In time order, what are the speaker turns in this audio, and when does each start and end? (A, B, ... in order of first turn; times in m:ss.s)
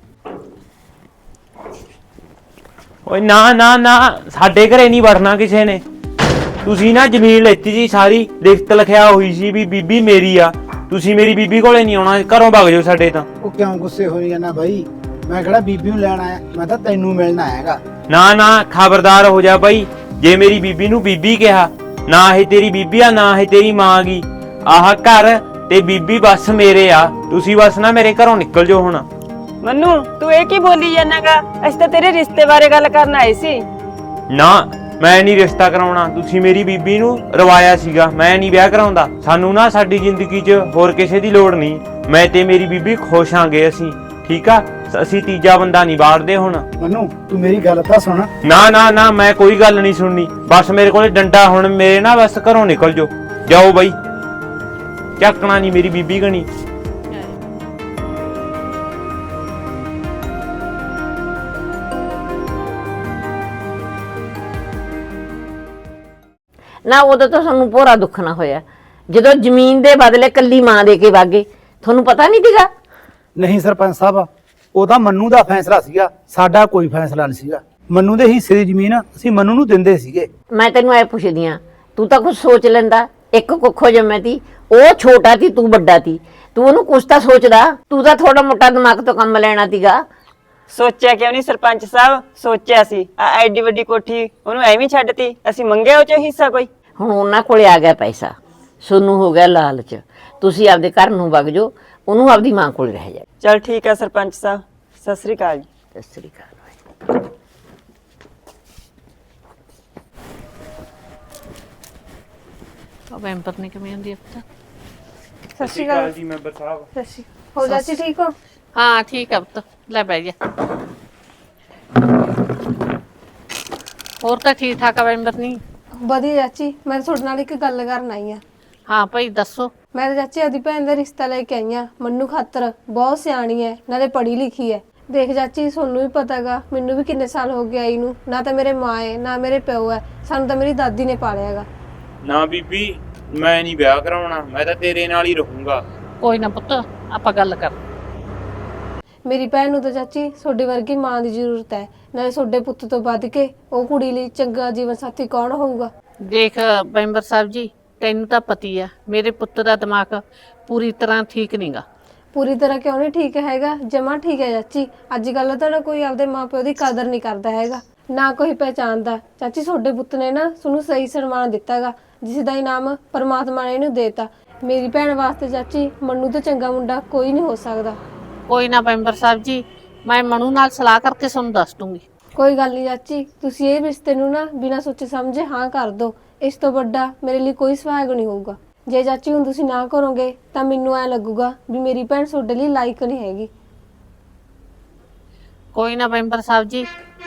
0:03.1-0:05.8 A
0:06.6-0:13.3 A
0:13.4-0:17.8 B
0:18.1-0:29.1 A
0:29.6-0:33.6 C
0:34.3-0:46.6 A
0:46.8-0:48.3 B
0:48.4-0:54.0 A
0:55.2-0:56.5 A
0:57.1-0:57.4 D
1:06.9-1:12.7 E
1:13.4-1:20.3 B
1:20.5-1:30.0 E
1:30.7-1:36.7 C
1:37.0-1:43.2 E
1:43.4-1:45.7 C
1:46.0-1:46.7 E
1:53.1-1:54.4 D
1:55.6-1:56.1 F
1:55.6-1:56.9 A
1:57.0-1:58.3 F
1:57.6-1:58.0 D
1:58.8-2:00.3 D
2:04.2-2:05.6 D
2:06.0-2:08.4 F
2:08.9-2:09.7 D
2:10.0-2:21.7 F
2:22.2-2:25.8 A
2:26.2-2:27.8 D
2:29.3-2:35.9 F
2:36.3-2:41.8 D
2:42.4-2:58.0 F
2:58.5-3:02.0 D
3:02.4-3:13.5 F
3:15.8-3:16.9 D